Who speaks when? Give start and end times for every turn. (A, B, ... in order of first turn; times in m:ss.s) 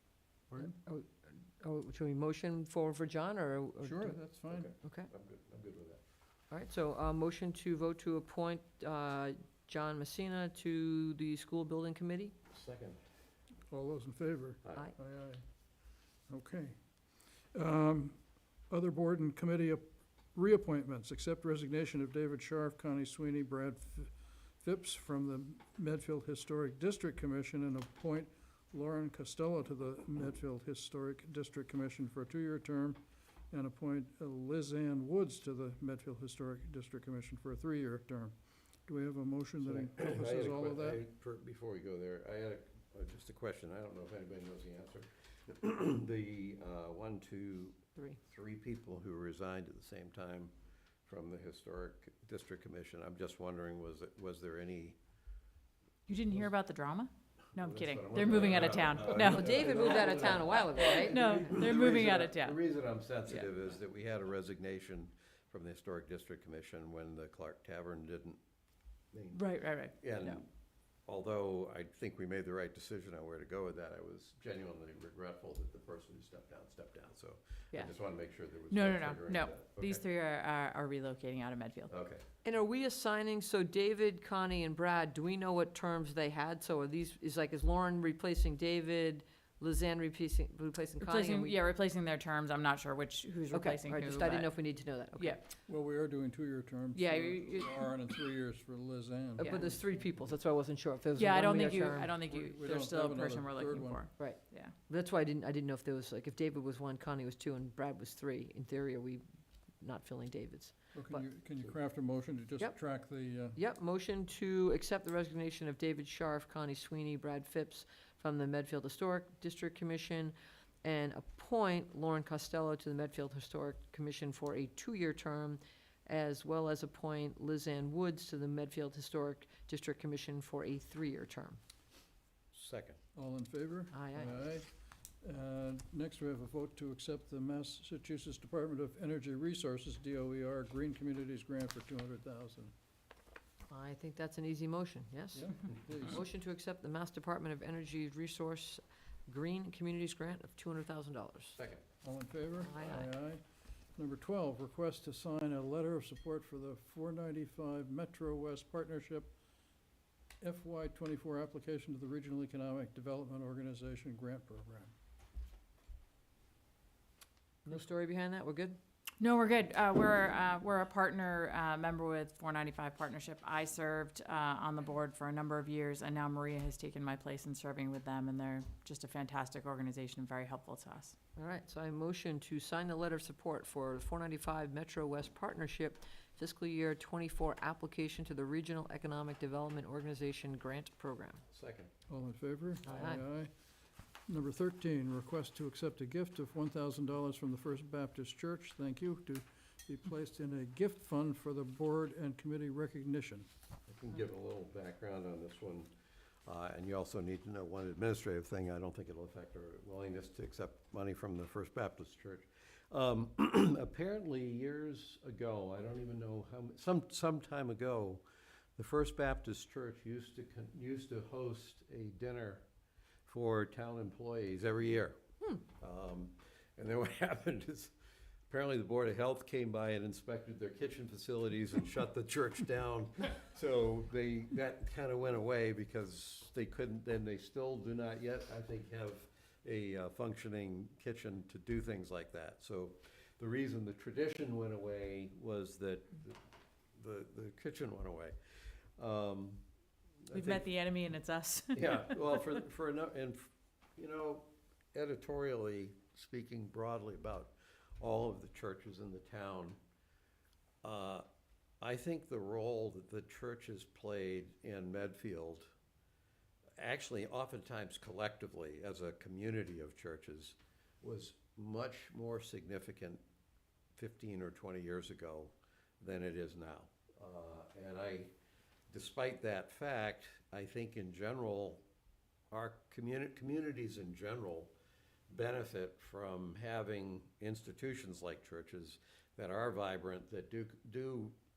0:00.6-0:04.2 A
0:03.8-0:04.7 B
0:04.5-0:06.0 C
0:04.8-0:05.1 A
0:06.5-0:12.3 A
0:12.5-0:13.0 C
0:13.7-0:15.4 B
0:16.3-0:16.8 B
0:17.5-0:33.0 B
0:33.5-0:38.4 B
0:38.9-0:41.0 B
0:39.6-0:50.5 C
0:51.1-0:55.0 C
0:56.1-1:00.1 D
0:57.6-1:08.4 C
0:59.0-1:01.7 A
1:00.8-1:02.6 D
1:09.1-1:10.5 C
1:09.3-1:10.4 D
1:11.1-1:20.0 C
1:18.7-1:21.9 D
1:21.9-1:22.2 C
1:22.4-1:31.6 A
1:31.0-1:34.5 D
1:33.5-1:35.4 A
1:35.2-1:35.4 D
1:35.6-1:39.5 B
1:37.0-1:37.9 D
1:39.4-1:39.8 D
1:39.4-1:42.2 A
1:41.2-1:44.7 D
1:42.2-1:44.0 B
1:44.2-1:49.2 A
1:49.8-1:51.2 A
1:51.0-1:53.6 B
1:53.6-2:11.6 A
2:12.5-2:13.0 C
2:13.2-2:14.7 B
2:13.9-2:14.5 A
2:15.2-2:22.7 B
2:23.7-2:31.6 A
2:25.3-2:26.2 B
2:32.0-2:33.4 B
2:32.6-2:33.1 A
2:34.0-2:39.3 B
2:40.4-2:44.9 B
2:47.6-2:48.8 A
2:49.2-3:01.2 D
3:01.4-3:11.4 A
3:11.5-3:11.9 C
3:12.1-3:13.5 B
3:12.9-3:13.2 A
3:14.3-3:23.5 B
3:23.9-3:25.9 C
3:26.5-3:38.2 C
3:38.8-3:42.6 C
3:43.3-3:45.2 C
3:45.8-3:47.9 C
3:48.5-4:06.4 C
4:07.0-4:08.4 C
4:09.0-4:09.6 C
4:10.2-4:10.6 C
4:10.3-4:12.6 D
4:11.8-4:19.8 C
4:20.8-4:21.2 C
4:21.8-4:25.7 C
4:26.8-4:33.2 C
4:34.0-4:38.3 C
4:38.9-4:41.8 C
4:42.5-4:44.7 C
4:45.3-4:51.4 C